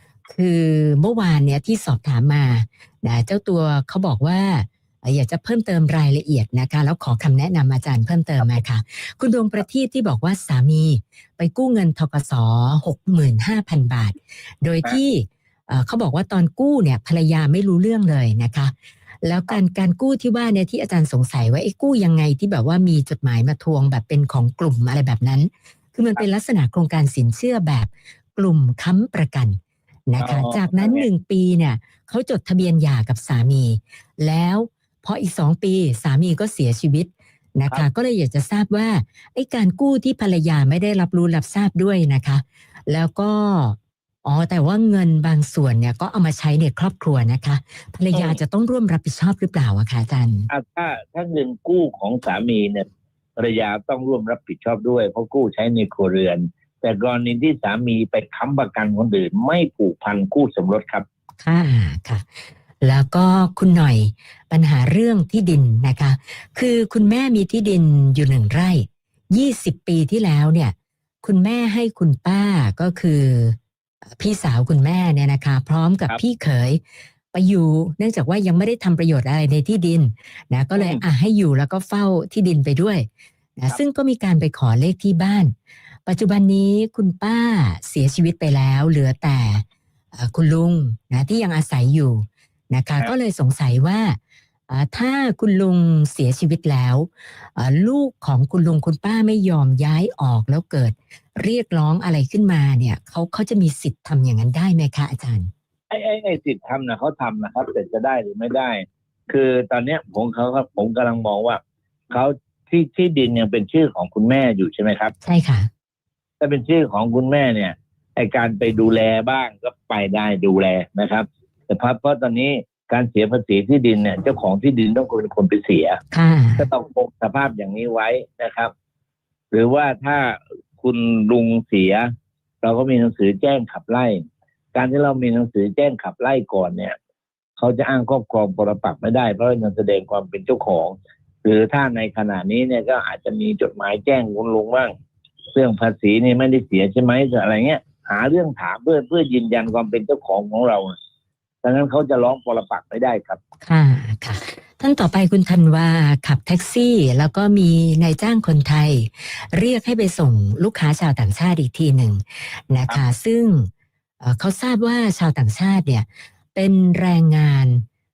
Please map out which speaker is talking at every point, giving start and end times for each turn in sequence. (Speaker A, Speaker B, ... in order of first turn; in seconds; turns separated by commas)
Speaker A: 0.3-50.5, Speaker B: 30.2-31.1, Speaker B: 48.1-48.4, Speaker B: 50.5-52.9, Speaker B: 53.4-61.0, Speaker A: 61.4-62.3, Speaker A: 62.8-73.6, Speaker A: 74.1-76.8, Speaker A: 77.3-85.5, Speaker B: 80.7-81.0, Speaker A: 86.0-94.2, Speaker A: 94.7-105.5, Speaker B: 105.9-115.1, Speaker A: 115.2-115.7, Speaker B: 116.4-126.0, Speaker A: 126.1-126.7, Speaker B: 126.6-128.7, Speaker B: 129.5-132.1, Speaker B: 132.6-136.9, Speaker B: 137.6-144.9, Speaker B: 145.5-150.9, Speaker B: 151.6-153.4, Speaker A: 153.6-163.7, Speaker A: 164.2-167.8